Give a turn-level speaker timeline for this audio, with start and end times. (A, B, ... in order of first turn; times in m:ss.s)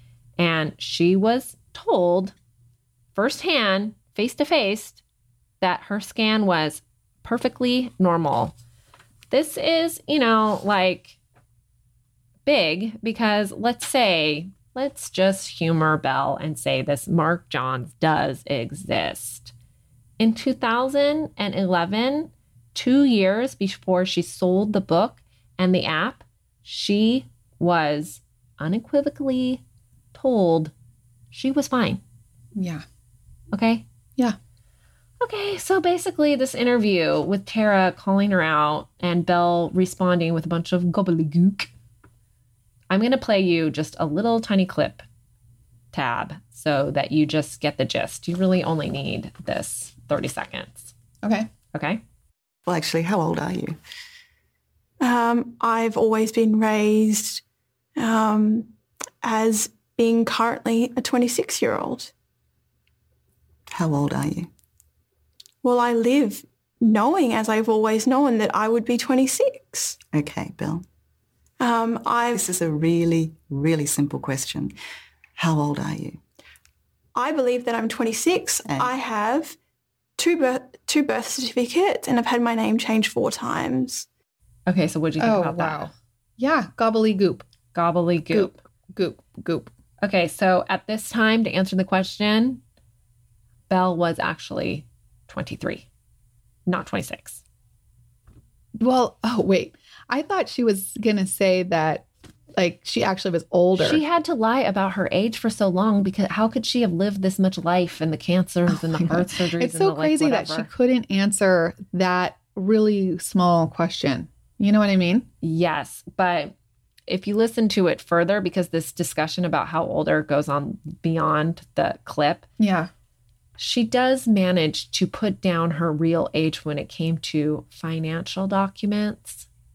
0:00.4-0:02.3 A
0:03.1-0:05.0 A
0:05.6-0:08.5 A
0:09.3-0:11.2 A
0:12.5-0:19.5 A
0:20.2-0:29.6 A
0:30.1-0:30.7 A
0:31.3-0:32.0 A
0:32.6-0:32.8 B
0:33.5-0:33.8 A
0:35.2-0:41.7 A
0:42.9-0:45.0 A
0:45.9-0:50.9 A
0:51.2-0:51.5 B
0:51.7-0:52.0 A
0:52.7-0:53.8 C
0:55.0-0:57.4 D
0:58.0-1:02.1 D
1:03.7-1:04.5 C
1:05.6-1:10.0 D
1:10.1-1:10.8 C
1:11.6-1:12.5 D
1:12.3-1:14.7 C
1:15.4-1:16.2 C
1:17.2-1:19.6 D
1:18.7-1:18.9 C
1:20.2-1:24.1 D
1:24.7-1:25.9 A
1:25.2-1:27.5 B
1:27.7-1:28.6 A
1:28.3-1:29.7 B
1:30.0-1:32.6 A
1:33.7-1:35.9 A
1:36.7-1:37.4 A
1:38.8-1:44.0 B
1:43.8-1:50.7 A
1:48.7-1:55.3 B
1:55.4-1:56.5 A
1:57.1-2:02.5 A
2:02.6-2:02.9 B
2:03.6-2:09.5 A